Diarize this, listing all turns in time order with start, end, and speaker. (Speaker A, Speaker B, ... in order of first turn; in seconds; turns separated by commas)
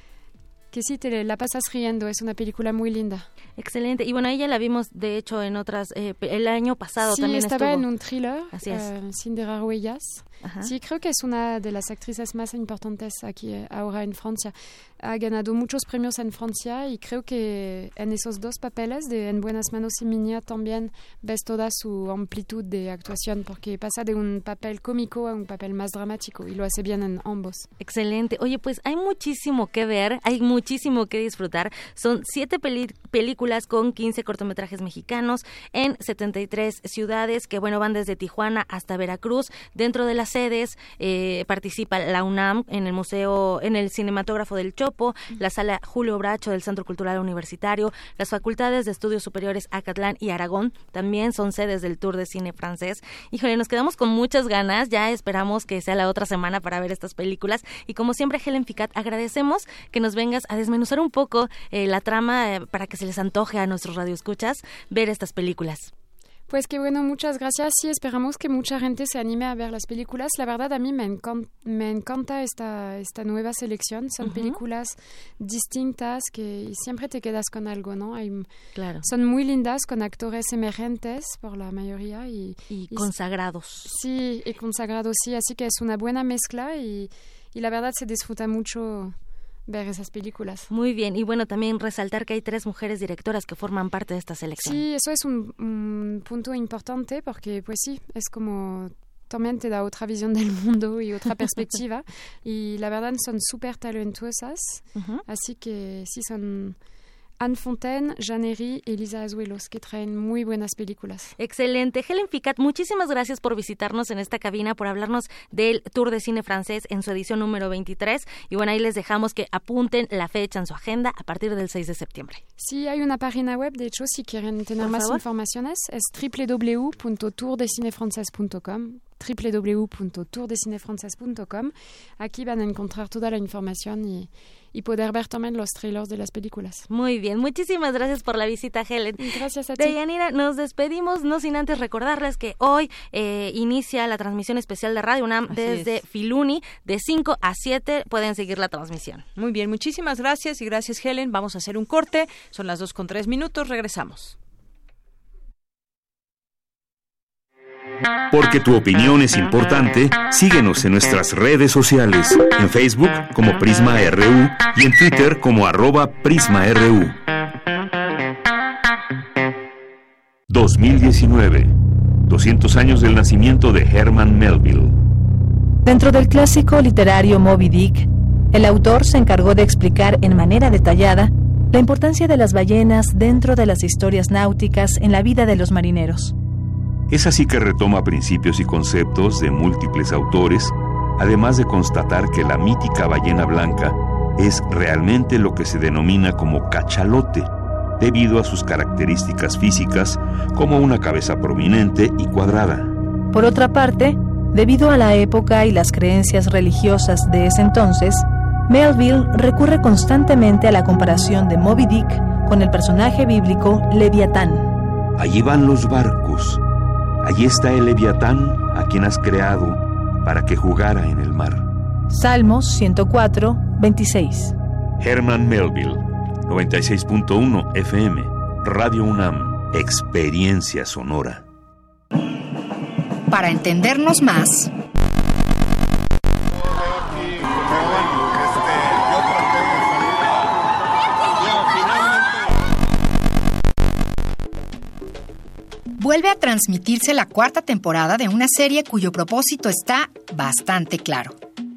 Speaker A: 0.7-3.3, Speaker B: 3.6-7.9, Speaker A: 7.0-27.7, Speaker B: 8.5-8.9, Speaker B: 10.4-10.7, Speaker B: 27.8-65.9, Speaker A: 66.5-78.5, Speaker B: 74.2-74.6, Speaker B: 78.8-79.1, Speaker A: 79.0-83.1, Speaker B: 82.7-83.9, Speaker A: 83.8-89.1, Speaker A: 89.7-90.7, Speaker B: 90.7-94.8, Speaker A: 94.6-106.8, Speaker B: 105.0-105.2, Speaker A: 107.4-111.3, Speaker B: 111.4-122.4, Speaker A: 122.6-136.8, Speaker B: 124.8-125.2, Speaker B: 136.9-149.3, Speaker A: 139.2-139.9, Speaker C: 145.5-145.9, Speaker C: 149.4-154.4, Speaker D: 158.3-167.2, Speaker D: 170.5-171.7, Speaker D: 172.3-174.9, Speaker E: 175.8-186.3, Speaker D: 187.1-202.9, Speaker E: 203.3-214.7, Speaker D: 215.2-216.6, Speaker D: 217.2-221.7, Speaker E: 222.1-224.6, Speaker D: 225.0-231.4, Speaker F: 233.3-234.7, Speaker F: 246.0-251.4